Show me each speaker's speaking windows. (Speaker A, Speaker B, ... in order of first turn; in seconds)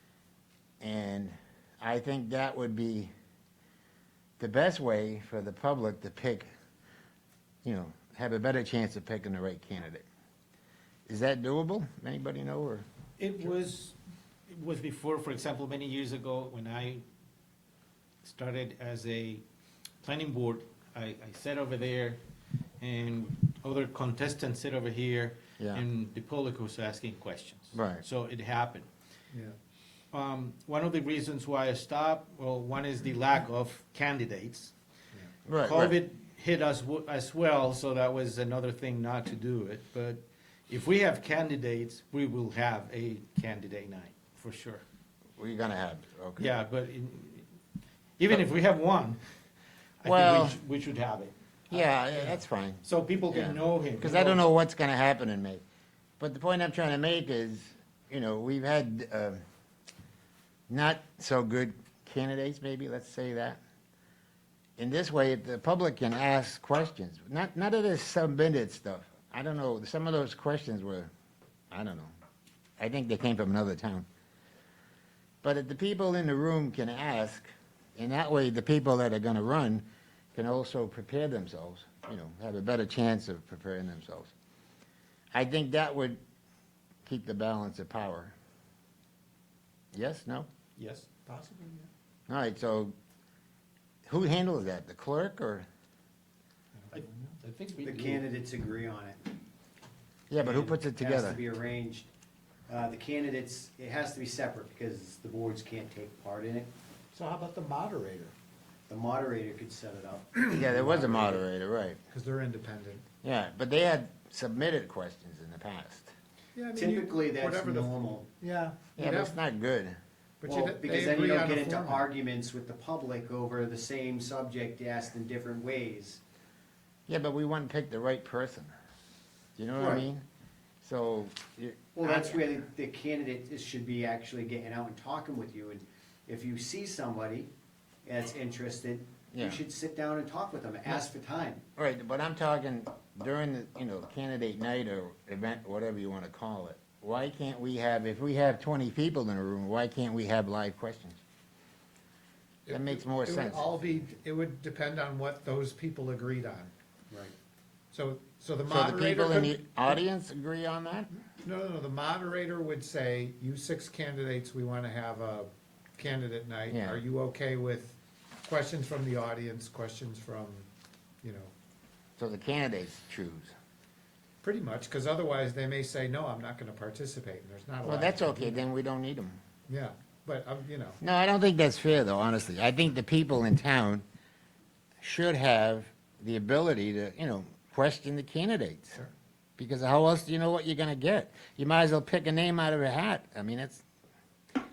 Speaker A: 0.8-3.1, 4.4-6.5, 7.6-10.1, 11.1-12.9, 27.7-28.0, 35.5-36.0, 45.4-46.5, 50.0-50.6, 51.7-55.6, 56.2-59.4, 60.7-63.6, 64.8-71.1, 71.7-72.1, 72.8-74.1, 75.4-84.3, 85.3-86.2, 87.1-88.3, 89.9-90.5, 92.3-92.9, 94.1-95.7, 100.3-101.4, 110.5-112.0, 113.2-116.1, 119.0-120.0, 127.1-128.7, 129.6-130.2, 130.8-132.5, 139.3-139.6, 141.8-151.2, 152.7-153.8, 158.7-161.1, 166.7-167.0, 172.2-173.5, 177.8-179.4, 181.0-184.1, 185.0-189.0, 189.6-193.8
Speaker B: 13.2-14.0, 14.5-17.0, 18.2-19.4, 20.0-22.2, 22.8-28.9, 30.1-34.7, 35.6-44.8, 46.4-47.5, 48.2-49.2, 50.0-54.4, 90.8-91.1, 96.9-98.2
Speaker C: 91.2-91.9, 96.8-97.4, 107.1-108.3, 112.1-113.0, 116.6-119.4, 120.4-122.1, 152.7-156.7, 157.9-160.0, 161.4-170.7, 171.2-171.5, 174.4-178.7, 179.7-181.0
Speaker D: 97.8-99.2, 100.4-102.1, 102.7-106.7, 108.9-111.4, 116.8-118.3, 120.5-126.2, 129.7-130.1, 132.0-137.5, 138.1-141.6